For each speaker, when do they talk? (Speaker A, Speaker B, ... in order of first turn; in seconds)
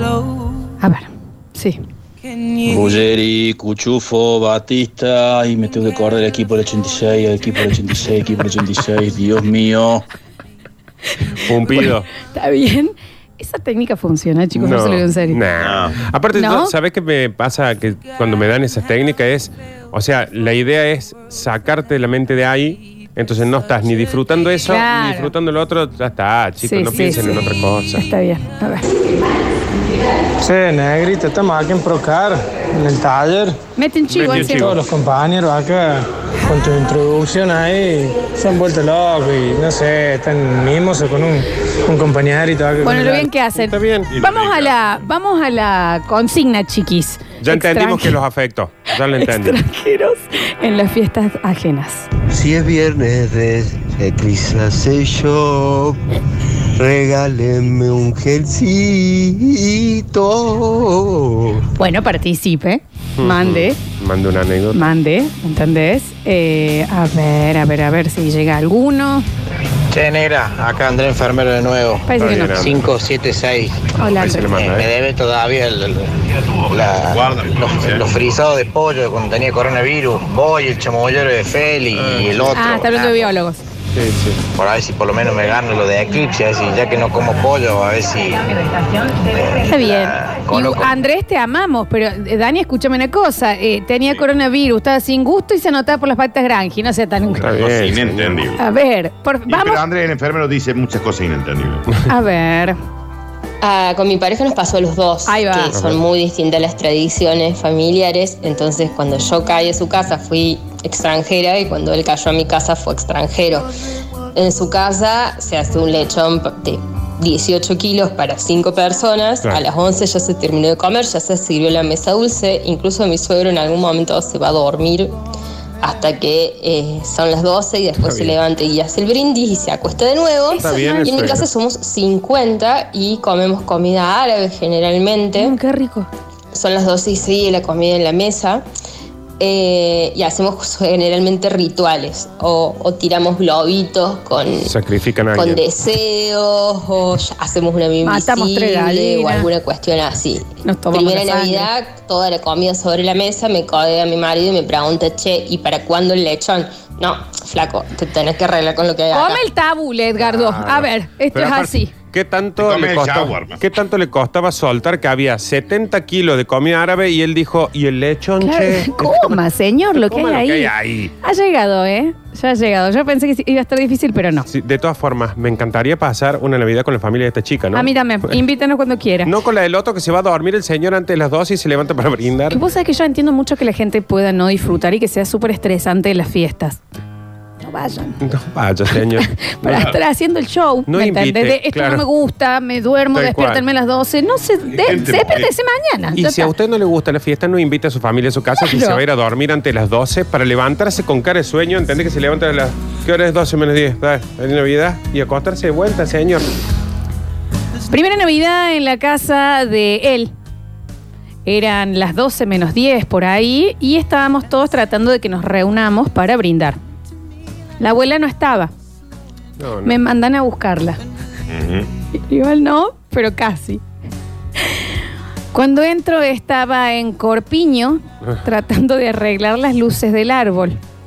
Speaker A: 0.8-1.8, 11.7-15.4, 16.4-16.7, 24.6-25.3, 26.6-27.4, 27.9-28.9, 33.8-34.7, 42.8-48.2, 49.2-52.1, 61.8-63.8, 64.7-69.3, 72.1-72.6, 74.0-74.5, 82.5-83.6, 89.5-97.5, 98.6-99.8, 102.1-102.8, 105.3-105.7, 130.5-131.4, 135.4-136.1, 148.1-149.5, 150.6-151.7, 159.1-161.9, 168.4-174.5, 177.7-179.3, 182.5-186.8, 187.6-188.2, 188.9-196.5, 198.6-199.0, 207.9-210.3, 211.4-216.8, 217.8-218.7, 219.8-221.0, 222.1-223.8, 225.5-230.8
Speaker B: 2.6-10.0
Speaker C: 11.5-12.1, 14.6-28.1, 34.1-34.8, 43.6-44.1, 47.4-49.6, 63.2-64.9, 72.2-72.8, 74.2-74.9, 82.0-83.1, 83.9-84.4, 97.4-98.4, 105.7-106.0, 128.0-128.4, 130.6-131.5, 144.6-145.6, 160.2-169.4, 169.9-171.1, 174.5-177.9, 179.2-182.6, 188.2-189.3, 190.9-192.1, 193.1-193.7, 196.1-206.4, 219.6-220.0
Speaker D: 15.6-16.0, 44.1-44.8, 77.1-78.1, 97.5-98.6, 99.5-101.9, 162.6-163.6, 194.8-195.5, 221.5-221.9
Speaker E: 30.4-33.6, 34.4-43.3
Speaker F: 52.3-56.0, 56.8-61.6
Speaker G: 69.9-73.8, 74.6-76.1, 76.7-83.3, 84.5-88.5, 89.3-90.9
Speaker H: 103.6-113.7, 114.3-125.2, 125.8-135.6, 136.5-138.6, 139.4-144.7, 145.3-159.4